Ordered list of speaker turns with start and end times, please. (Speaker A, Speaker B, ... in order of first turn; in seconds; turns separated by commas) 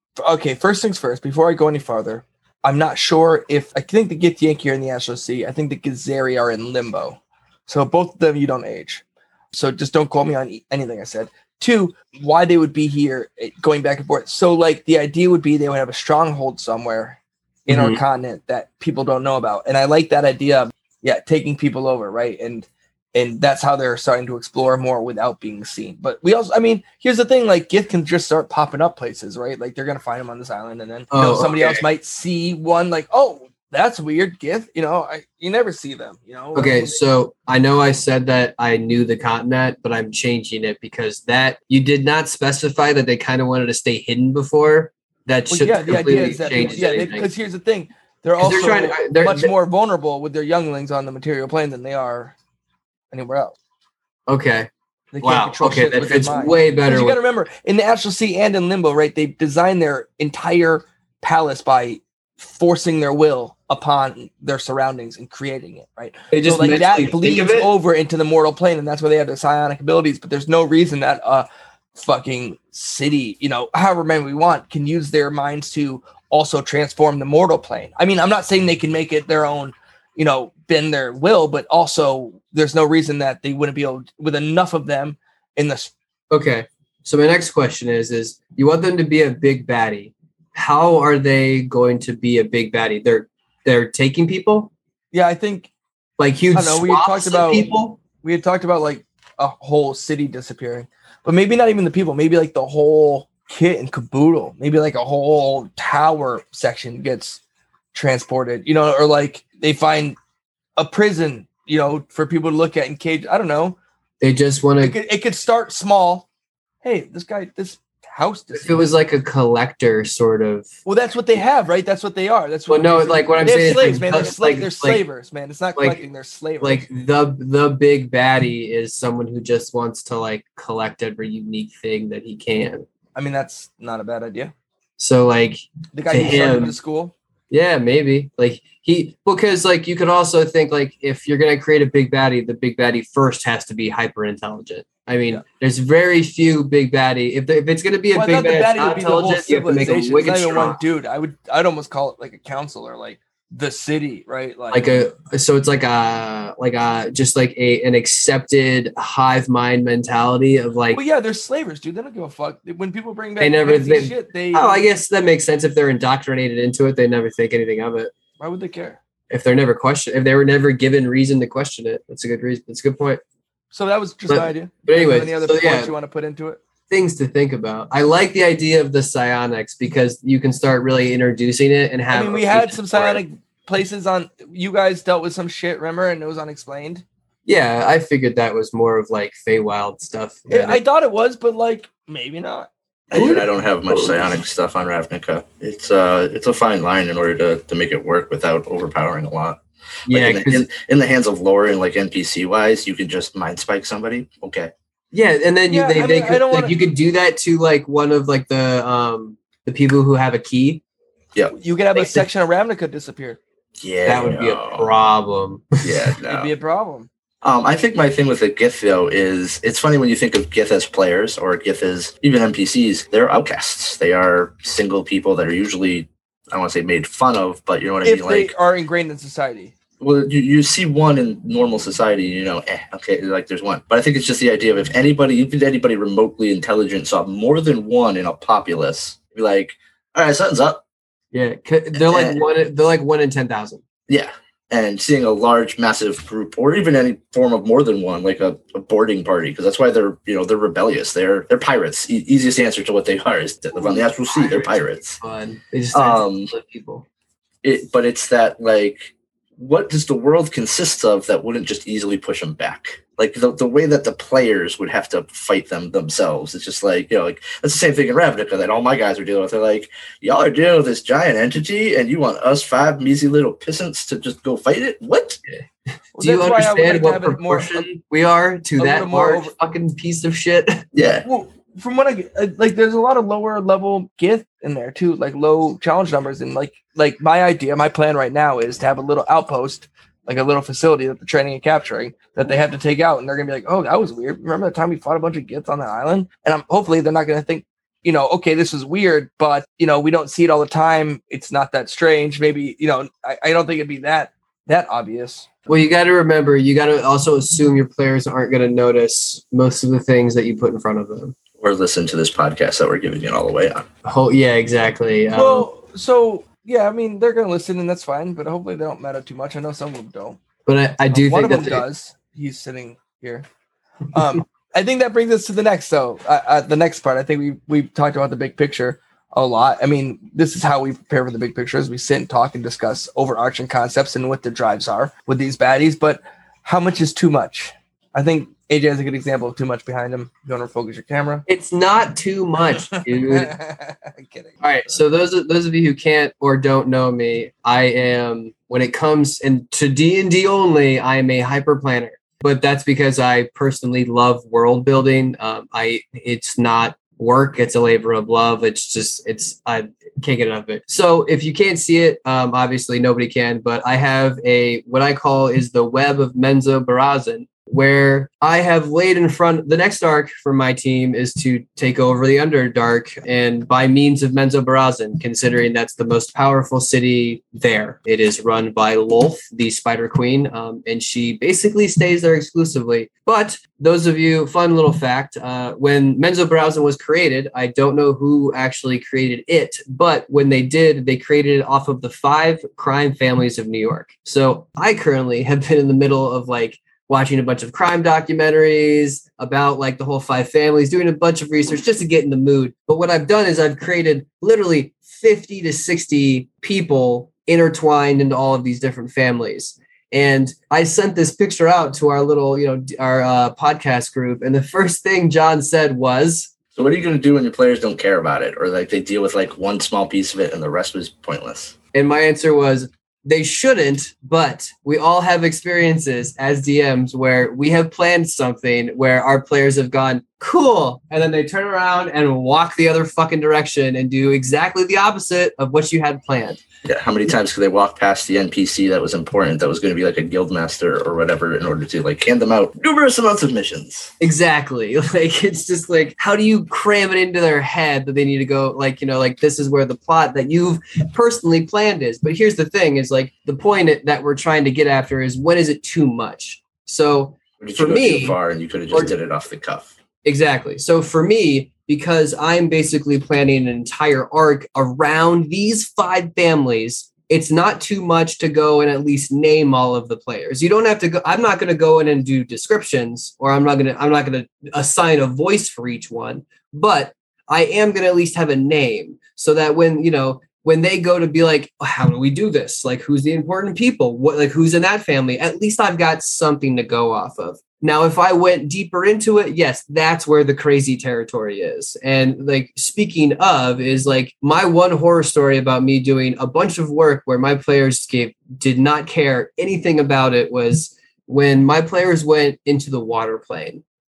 Speaker A: 0.2-37.0, Speaker B: 17.7-18.0, Speaker B: 31.1-31.9, Speaker B: 36.5-47.3, Speaker A: 45.5-52.4, Speaker B: 48.4-49.5, Speaker A: 53.1-53.5, Speaker B: 54.3-54.7, Speaker A: 55.1-85.9, Speaker B: 55.2-57.2, Speaker B: 66.3-67.7, Speaker B: 86.3-94.7, Speaker A: 95.1-95.7, Speaker B: 96.2-98.0, Speaker A: 96.5-107.4, Speaker A: 107.9-110.2, Speaker A: 110.8-113.8, Speaker B: 114.2-115.0, Speaker A: 114.8-116.3, Speaker A: 116.8-118.8, Speaker B: 118.5-120.7, Speaker A: 120.8-126.9, Speaker B: 122.7-125.0, Speaker B: 125.8-126.0, Speaker B: 126.6-132.9, Speaker A: 133.2-134.5, Speaker B: 135.0-136.8, Speaker A: 135.9-137.1, Speaker B: 137.5-150.8, Speaker A: 148.1-155.1, Speaker B: 154.7-161.0, Speaker A: 160.9-164.9, Speaker B: 163.4-168.1, Speaker A: 168.4-169.0, Speaker B: 169.3-173.2, Speaker A: 173.7-176.6, Speaker B: 174.3-175.9, Speaker B: 176.9-183.2, Speaker A: 182.1-187.0, Speaker B: 187.5-190.8, Speaker A: 190.5-192.7, Speaker C: 193.1-204.7, Speaker B: 193.1-194.3, Speaker B: 200.1-200.7, Speaker B: 205.1-210.8, Speaker A: 205.7-206.8, Speaker A: 211.6-213.4, Speaker B: 211.9-212.3, Speaker C: 213.8-214.9, Speaker B: 214.1-216.1, Speaker C: 215.8-216.5, Speaker A: 216.3-217.1, Speaker C: 217.4-228.5, Speaker A: 228.0-229.7, Speaker C: 230.0-240.8, Speaker B: 241.3-243.8, Speaker C: 241.9-242.4, Speaker C: 244.1-255.2, Speaker B: 253.8-257.1, Speaker C: 255.9-256.5, Speaker C: 257.6-275.4, Speaker A: 276.1-277.9, Speaker B: 276.2-280.9, Speaker A: 278.8-279.5, Speaker C: 280.9-281.2, Speaker A: 281.2-305.7, Speaker B: 305.7-311.4, Speaker C: 311.6-313.9, Speaker B: 314.1-315.7, Speaker A: 315.3-320.4, Speaker B: 320.7-321.8, Speaker A: 321.1-323.5, Speaker A: 324.1-341.5, Speaker B: 341.5-343.5, Speaker A: 343.1-345.0, Speaker B: 344.6-416.5, Speaker C: 416.8-421.8, Speaker B: 421.9-436.6, Speaker C: 436.9-444.1, Speaker B: 444.2-458.4, Speaker C: 457.6-459.9, Speaker B: 460.2-503.8